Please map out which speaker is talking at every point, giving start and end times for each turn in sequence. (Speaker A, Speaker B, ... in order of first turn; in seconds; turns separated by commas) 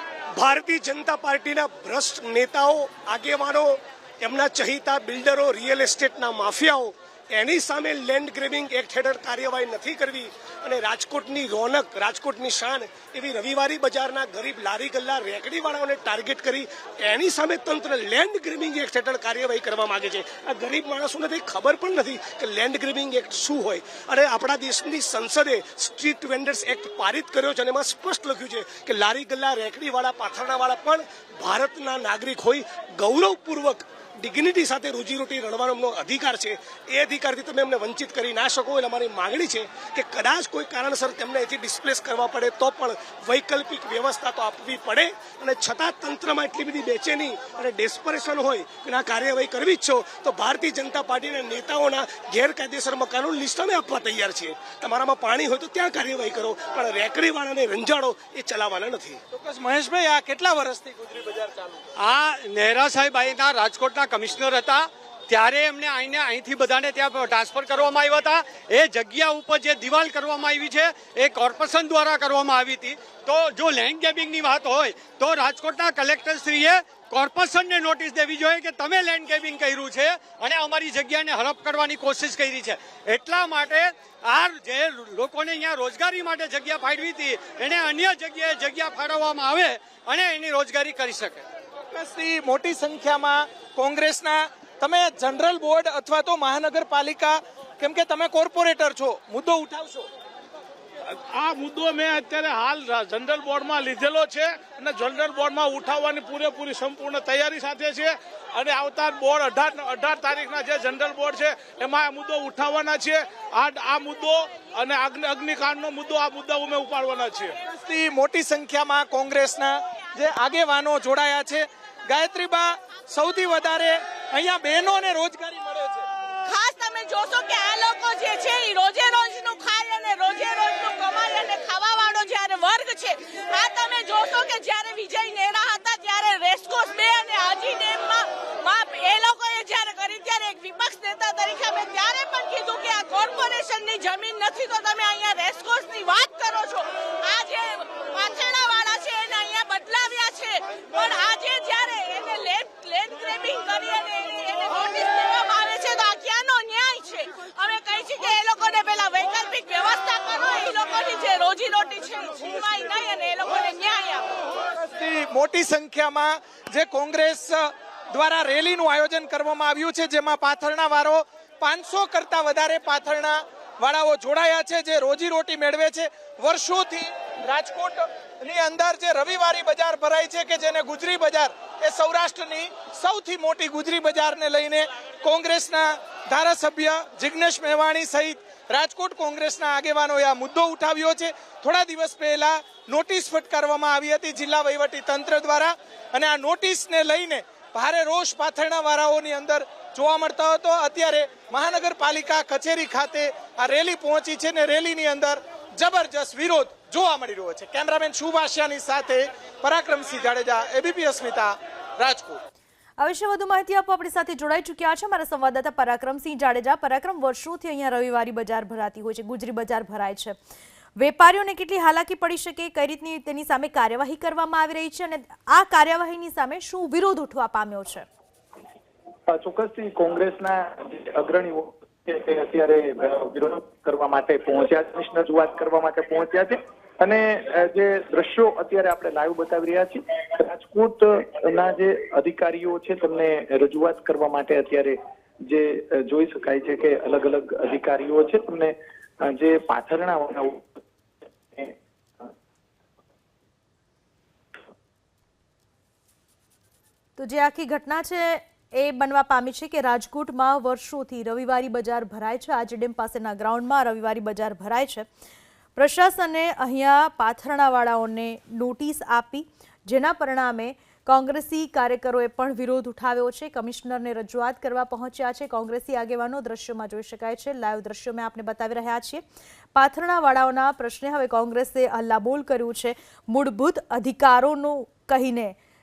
Speaker A: 0.3-59.2, Speaker B: 59.3-61.8, Speaker C: 62.0-91.5, Speaker B: 91.9-100.1, Speaker D: 101.1-117.5, Speaker B: 117.7-126.0, Speaker E: 126.5-164.3, Speaker B: 164.7-212.4, Speaker F: 213.0-220.3, Speaker F: 221.0-228.1, Speaker G: 229.3-245.0, Speaker G: 245.5-250.7, Speaker G: 251.5-252.3, Speaker F: 257.2-265.1, Speaker F: 265.8-279.2, Speaker F: 279.8-285.5